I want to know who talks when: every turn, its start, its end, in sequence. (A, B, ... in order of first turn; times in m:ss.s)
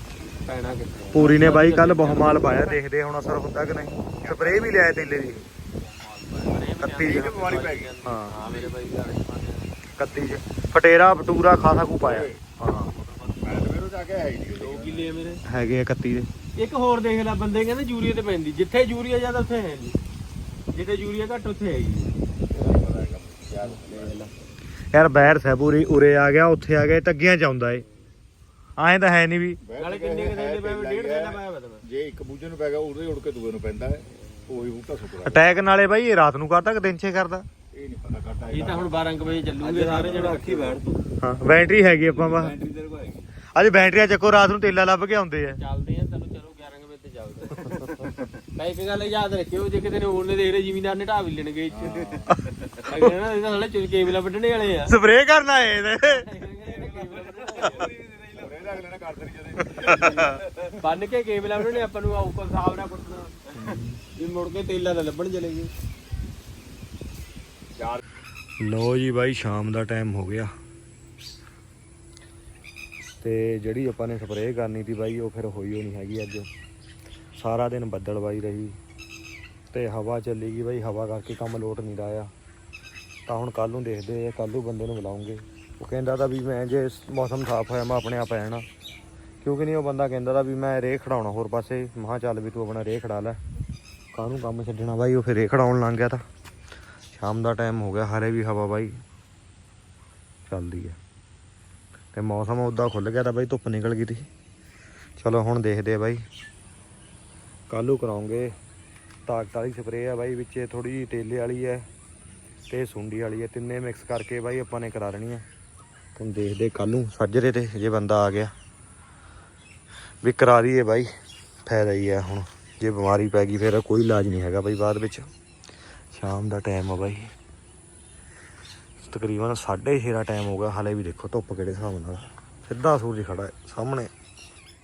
0:00.5-0:02.4 A
0:01.1-0:05.4 B
0:04.2-0:04.7 C
0:05.8-0:06.6 D
0:06.5-0:09.7 A
0:06.8-0:07.9 C
0:06.8-0:07.3 B
0:08.0-0:08.3 B
0:08.4-0:08.7 C
0:10.0-0:12.9 B
0:12.0-0:12.4 C
0:12.9-0:15.3 C
0:14.6-0:15.4 A
0:15.5-0:16.3 B
0:16.6-0:20.0 A
0:20.7-0:22.9 A
0:22.5-0:24.3 C
0:23.8-0:24.3 A
0:24.9-0:27.8 B
0:28.8-0:29.6 B
0:29.6-0:35.4 C
0:29.8-0:31.8 A
0:35.2-0:37.5 B
0:37.7-0:39.0 C
0:38.5-0:40.8 A
0:39.6-0:41.0 D
0:41.2-0:42.5 B
0:41.9-0:43.3 D
0:43.6-0:45.6 B
0:45.6-0:47.7 A
0:47.6-0:48.4 D
0:48.6-0:52.1 A
0:51.7-0:52.3 C
0:52.8-0:55.0 A
0:54.9-0:56.2 B
0:56.0-0:57.9 A
0:56.6-0:58.9 D
0:58.4-1:00.2 C
0:59.6-1:00.3 B
0:59.8-1:00.8 D
1:00.8-1:03.4 A
1:03.6-1:04.0 B
1:04.2-1:05.7 A
1:07.8-1:08.0 C
1:08.6-1:10.5 B
1:13.2-1:16.5 B
1:17.4-1:18.8 B
1:19.7-1:22.3 B
1:23.3-1:28.6 B
1:29.4-1:33.4 B
1:34.1-1:36.2 B
1:37.1-1:39.0 B
1:40.5-1:41.0 B
1:42.1-1:44.3 B
1:45.2-1:46.2 B
1:47.7-1:48.5 B
1:49.3-1:51.9 B
1:52.7-1:55.4 B
1:56.2-1:58.5 B
2:00.2-2:01.1 B
2:01.6-2:05.3 B
2:06.1-2:07.3 B
2:09.0-2:14.1 B